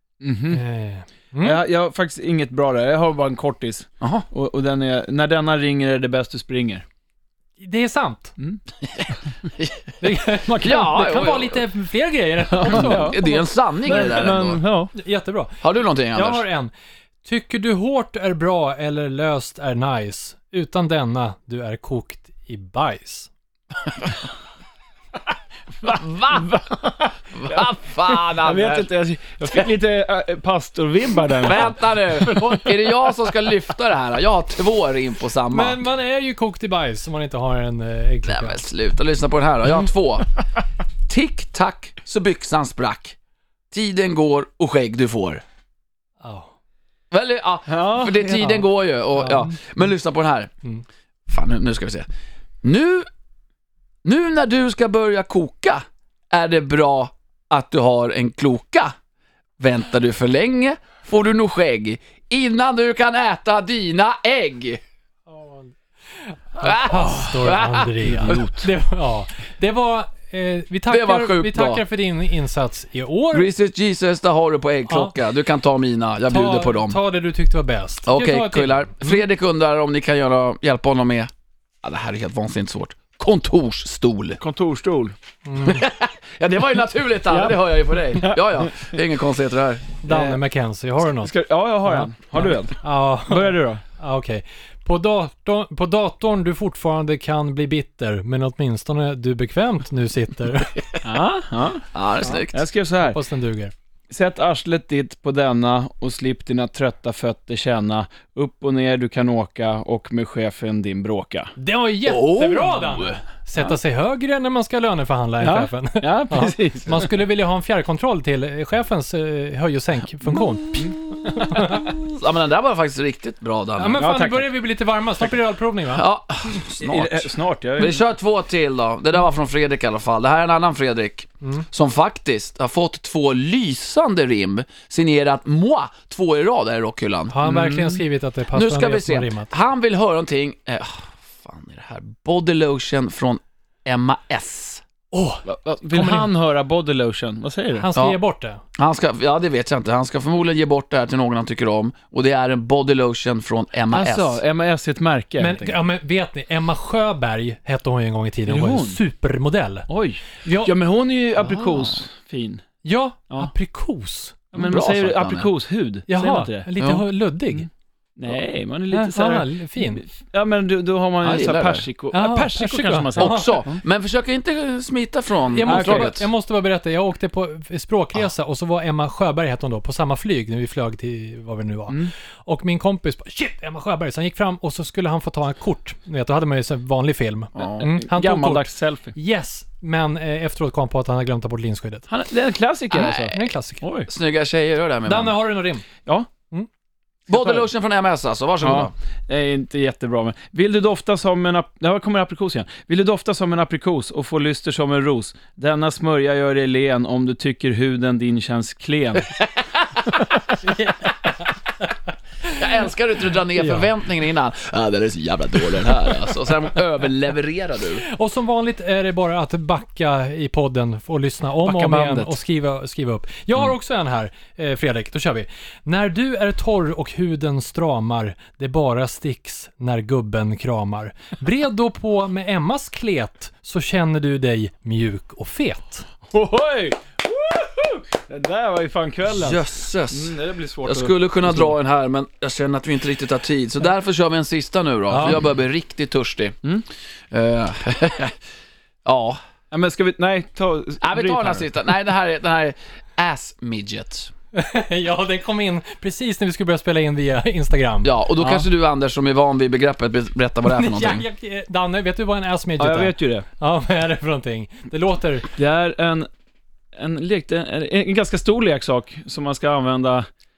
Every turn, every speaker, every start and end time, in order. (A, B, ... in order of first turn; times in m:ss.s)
0:00.2-0:00.6 A
0:00.5-0:01.6 B
0:01.4-0:06.8 A
0:04.0-0:04.2 C
0:07.6-0:08.3 B
0:08.8-0:09.9 C
0:10.0-0:14.2 B
0:10.6-0:11.6 C
0:12.6-0:14.6 C
0:12.6-0:13.3 A
0:13.8-0:14.9 A
0:14.9-0:15.6 B
0:15.6-0:16.4 C
0:16.1-0:16.7 B
0:17.2-0:23.3 B
0:25.8-0:26.7 C
0:26.3-0:32.7 A
0:27.3-0:28.9 C
0:31.4-0:35.8 C
0:32.3-0:32.6 B
0:35.5-0:38.6 B
0:38.2-0:40.3 C
0:41.1-0:43.2 C
0:43.7-0:45.4 C
0:46.2-0:46.5 B
0:47.1-0:50.5 C
0:47.7-0:48.4 A
0:48.4-0:48.6 B
0:49.2-0:49.5 B
0:51.3-0:52.0 C
0:52.6-0:53.1 C
0:54.0-0:58.9 C
0:59.6-1:04.8 C
1:05.3-1:13.5 B
1:06.6-1:08.6 C
1:08.0-1:08.5 A
1:10.9-1:11.8 C
1:13.3-1:17.0 C
1:14.9-1:15.1 B
1:16.3-1:19.2 B
1:18.0-1:21.3 C
1:21.8-1:24.4 C
1:24.4-1:25.1 A
1:25.4-1:25.8 B
1:25.6-1:29.9 C
1:27.3-1:29.0 A
1:30.0-1:31.3 B
1:30.0-1:30.4 A
1:31.2-1:33.8 A
1:31.8-1:40.8 B
1:41.0-1:41.9 A
1:41.9-1:42.6 C
1:42.5-1:43.2 A
1:43.0-1:43.7 B
1:44.1-1:51.5 A
1:51.6-2:01.9 B
1:52.0-1:53.2 C
1:55.4-1:57.1 A
2:01.2-2:04.0 C
2:03.8-2:06.1 B
2:04.0-2:04.5 A
2:05.9-2:17.3 C
2:06.7-2:08.0 A
2:17.3-2:19.5 B
2:17.4-2:18.0 A
2:18.5-2:24.8 C
2:25.1-2:26.3 B
2:25.4-2:27.9 A
2:27.8-2:28.6 B
2:28.8-2:34.4 C
2:33.9-2:35.8 A
2:35.4-2:39.9 B
2:38.5-2:39.0 A
2:39.9-2:42.6 A
2:40.4-2:40.7 B
2:41.4-2:42.0 C
2:42.8-2:44.5 B
2:44.5-2:45.5 C
2:44.5-2:46.7 A
2:46.1-2:47.7 B
2:46.8-2:47.0 C
2:47.5-2:53.8 A
2:48.9-2:50.0 B
2:51.2-2:51.8 C
2:52.1-2:53.6 B
2:53.2-2:56.3 C
2:55.5-3:12.1 B
2:55.6-2:56.1 A
3:07.5-3:07.8 C
3:07.8-3:09.1 A
3:12.1-3:14.1 A
3:13.1-3:13.8 B
3:14.1-3:15.4 C
3:15.0-3:15.8 B
3:17.3-3:18.9 C
3:17.3-3:17.7 A
3:18.6-3:29.3 A
3:29.4-3:30.1 C
3:30.6-3:31.1 B
3:32.5-3:38.0 C
3:33.5-3:33.9 B
3:38.0-3:56.0 B
3:41.6-3:42.4 A
3:56.3-4:01.7 A
3:59.3-4:00.3 C
4:00.8-4:06.6 C
4:05.1-4:05.4 B
4:07.3-4:08.4 C
4:09.0-4:09.4 C
4:09.7-4:11.7 A
4:11.0-4:14.3 C
4:14.5-4:18.1 B
4:18.0-4:21.2 C
4:18.4-4:18.6 A
4:20.6-4:25.5 B
4:22.8-4:23.4 A
4:25.6-4:26.3 A
4:26.9-4:30.3 A